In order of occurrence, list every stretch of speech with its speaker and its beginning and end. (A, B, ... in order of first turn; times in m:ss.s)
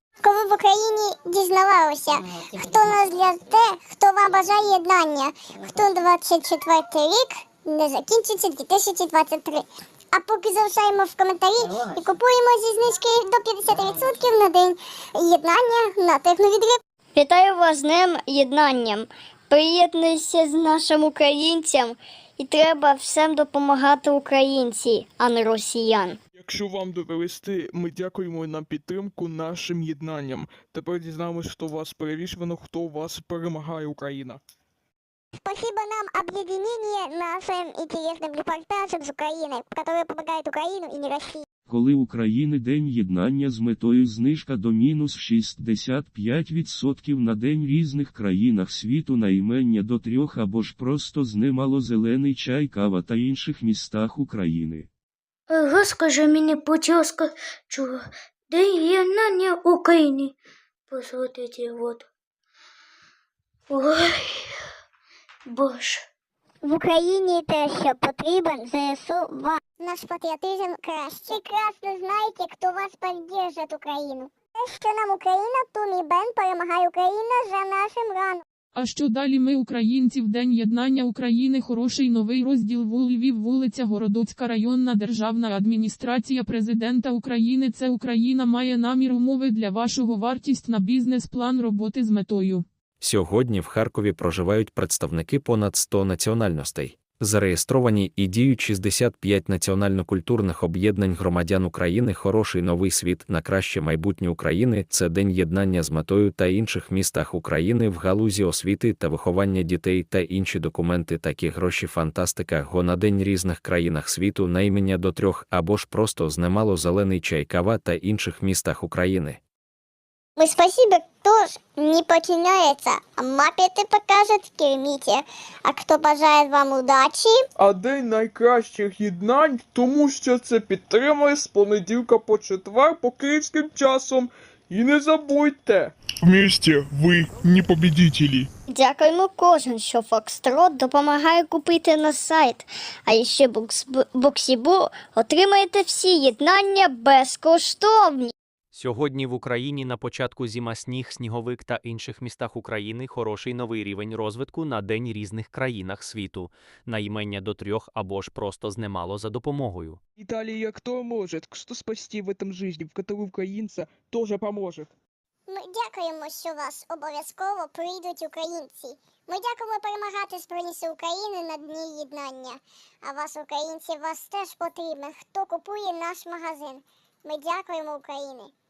0:00.2-0:16.8 A
0:17.1-0:26.2 B
0:26.4-0:34.4 C
0:35.4-0:41.4 A
0:41.7-0:54.9 D
0:55.5-1:00.3 E
1:00.9-1:02.0 E
1:03.7-1:04.6 E
1:05.5-1:06.0 E
1:09.8-1:18.4 A
1:18.7-1:32.6 F
1:33.0-1:59.4 G
2:00.4-2:07.4 A
2:07.6-2:18.5 C
2:18.7-2:28.3 B
2:28.7-2:40.0 H
2:40.2-2:44.9 C
2:45.5-2:58.5 A